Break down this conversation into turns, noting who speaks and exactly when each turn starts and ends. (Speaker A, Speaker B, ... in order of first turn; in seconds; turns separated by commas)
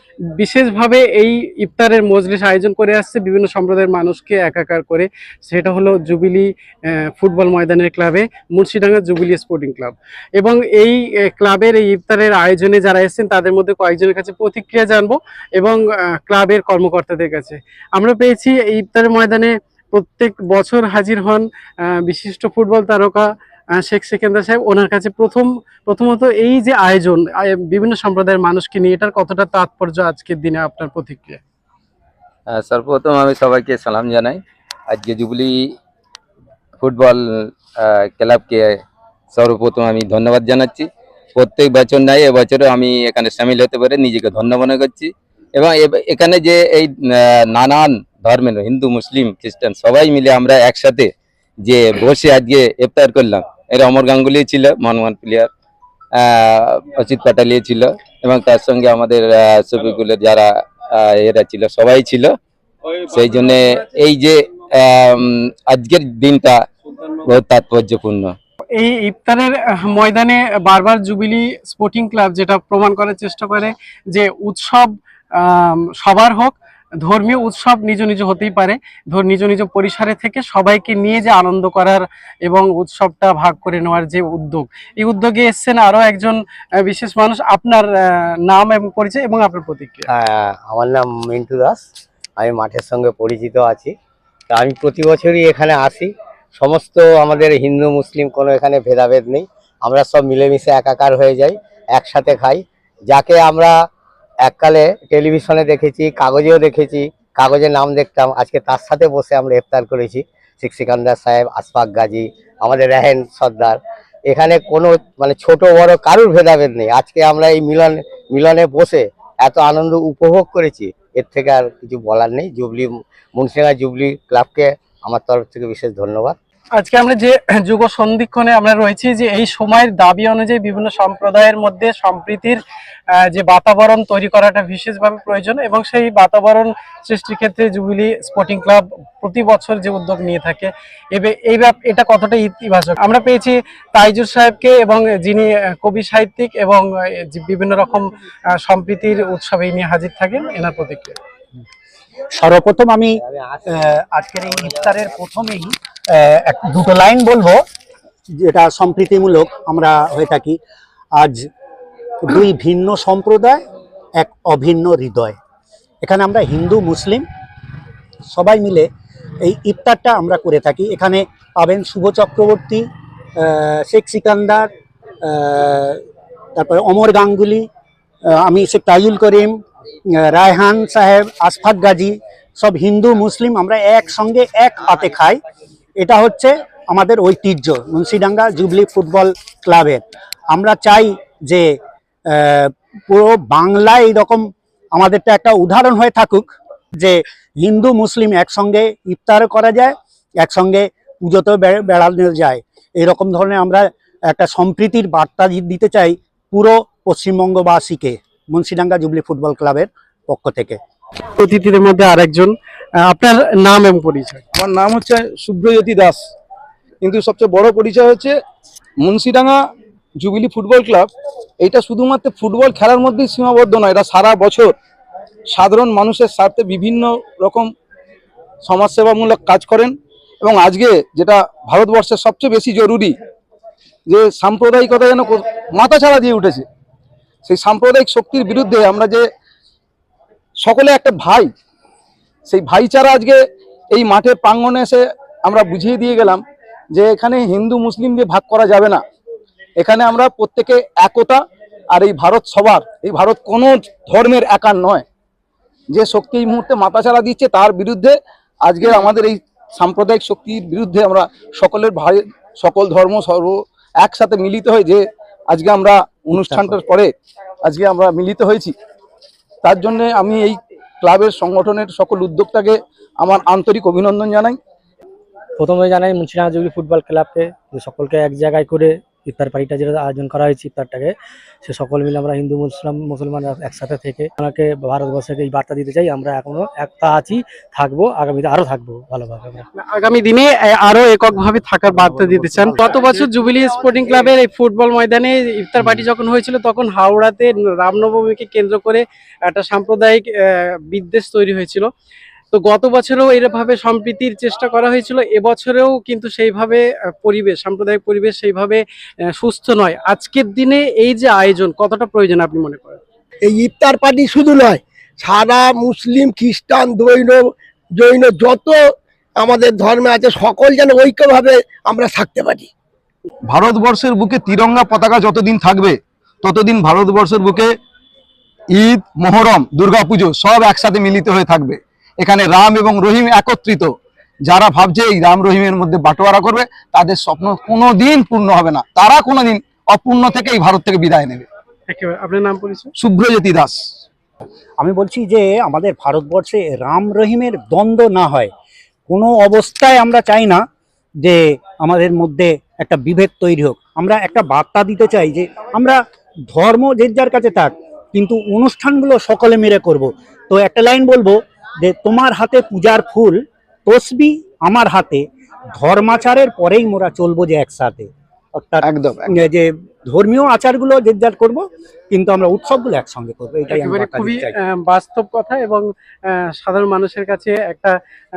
Speaker A: 0.4-31.4, Speaker B: 32.5-35.7, Speaker B: 36.8-37.2, Speaker B: 37.7-38.8, Speaker B: 39.3-51.1, Speaker B: 51.6-55.5, Speaker B: 56.1-62.3, Speaker B: 63.1-66.6, Speaker B: 67.2-68.3, Speaker A: 68.7-90.1, Speaker C: 90.1-91.8, Speaker C: 92.4-93.9, Speaker C: 94.5-103.8, Speaker C: 104.4-126.4, Speaker A: 126.8-151.2, Speaker D: 152.3-153.2, Speaker D: 153.7-157.6, Speaker D: 158.3-160.6, Speaker D: 161.2-161.5, Speaker D: 162.2-163.6, Speaker D: 164.2-165.4, Speaker D: 166.0-167.2, Speaker D: 168.3-168.9, Speaker D: 169.4-174.7, Speaker D: 175.2-176.0, Speaker D: 176.6-177.7, Speaker D: 178.3-179.6, Speaker D: 180.2-185.4, Speaker D: 186.0-191.7, Speaker D: 192.3-210.8, Speaker A: 211.4-214.4, Speaker E: 214.6-216.2, Speaker E: 217.0-218.3, Speaker E: 219.0-219.6, Speaker E: 220.2-221.1, Speaker E: 221.6-224.7, Speaker E: 225.5-227.7, Speaker E: 228.6-233.1, Speaker E: 234.1-236.6, Speaker E: 237.4-239.2, Speaker E: 240.6-241.5, Speaker E: 242.5-243.4, Speaker E: 243.9-249.0, Speaker E: 249.8-251.4, Speaker E: 251.9-255.0, Speaker E: 255.9-267.1, Speaker E: 267.6-268.7, Speaker E: 269.6-274.6, Speaker F: 275.6-289.6, Speaker A: 289.8-301.9, Speaker A: 302.5-308.8, Speaker A: 309.3-313.0, Speaker G: 313.4-322.7, Speaker E: 323.5-327.7, Speaker E: 328.7-333.9, Speaker E: 334.4-341.4, Speaker A: 341.9-342.9, Speaker E: 343.0-343.8, Speaker D: 344.8-348.5, Speaker D: 349.1-350.6, Speaker D: 351.2-365.2, Speaker D: 365.8-374.5, Speaker E: 368.8-369.3, Speaker A: 373.7-377.9